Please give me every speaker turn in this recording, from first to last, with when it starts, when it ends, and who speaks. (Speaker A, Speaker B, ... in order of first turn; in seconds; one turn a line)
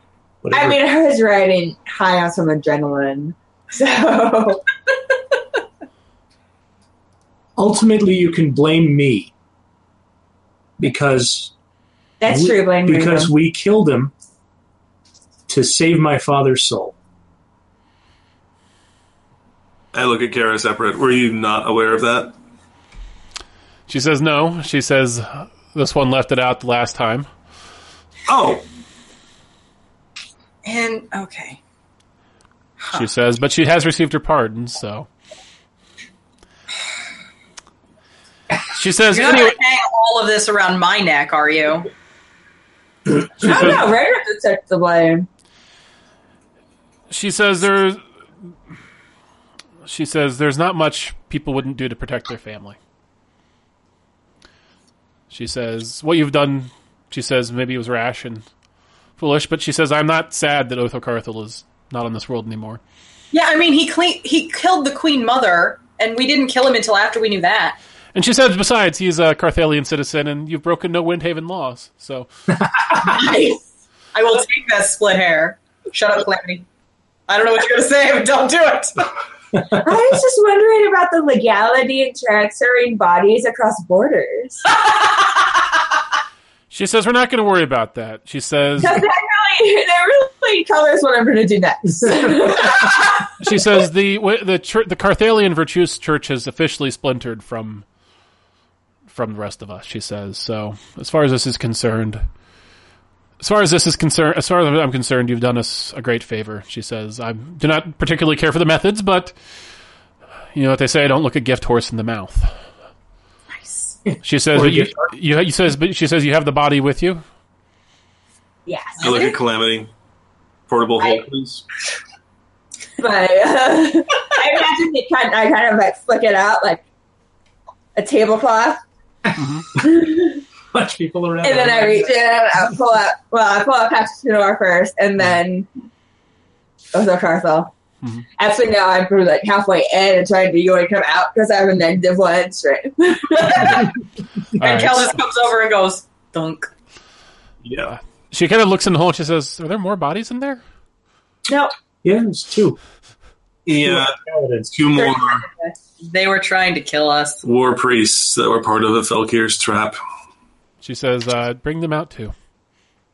Speaker A: 0.4-0.8
Speaker B: 0.5-4.7
Speaker A: 7.6-9.3
Speaker A: 10.8-11.5
Speaker B: 12.2-13.3
Speaker A: 12.3-14.1
Speaker A: 15.5-16.9
Speaker C: 19.9-22.3
Speaker D: 23.9-27.3
Speaker C: 28.3-28.6
Speaker E: 30.6-31.6
Speaker D: 32.9-35.1
Speaker D: 38.7-39.6
Speaker E: 39.1-41.9
Speaker B: 43.4-45.3
Speaker D: 43.4-43.9
Speaker D: 47.1-48.0
Speaker D: 49.8-52.8
Speaker D: 55.3-58.4
Speaker D: 59.2-62.8
Speaker E: 63.3-67.8
Speaker D: 68.1-72.3
Speaker B: 73.0-73.6
Speaker E: 74.1-76.7
Speaker E: 77.3-79.1
Speaker B: 79.8-84.6
Speaker D: 86.7-89.0
Speaker B: 88.8-93.3
Speaker D: 93.4-97.8
Speaker D: 99.1-102.2
Speaker D: 103.4-109.3
Speaker D: 110.5-112.5
Speaker E: 113.6-113.9
Speaker A: 114.0-115.1
Speaker D: 114.2-117.2
Speaker B: 118.7-119.1
Speaker E: 119.0-119.3
Speaker C: 119.0-119.9
Speaker C: 120.7-121.6
Speaker B: 123.0-126.8
Speaker B: 127.9-128.8
Speaker D: 129.3-129.7
Speaker B: 129.8-130.4
Speaker A: 130.7-132.2
Speaker B: 131.4-135.7
Speaker B: 136.9-137.7
Speaker B: 138.4-143.9
Speaker D: 144.6-145.1
Speaker E: 144.6-146.7
Speaker C: 147.6-147.9
Speaker D: 147.8-150.6
Speaker A: 152.0-152.8
Speaker C: 153.7-154.2
Speaker A: 153.7-154.7
Speaker C: 154.7-155.4
Speaker B: 154.9-155.7
Speaker E: 156.0-157.4
Speaker C: 157.4-160.0
Speaker D: 160.8-162.3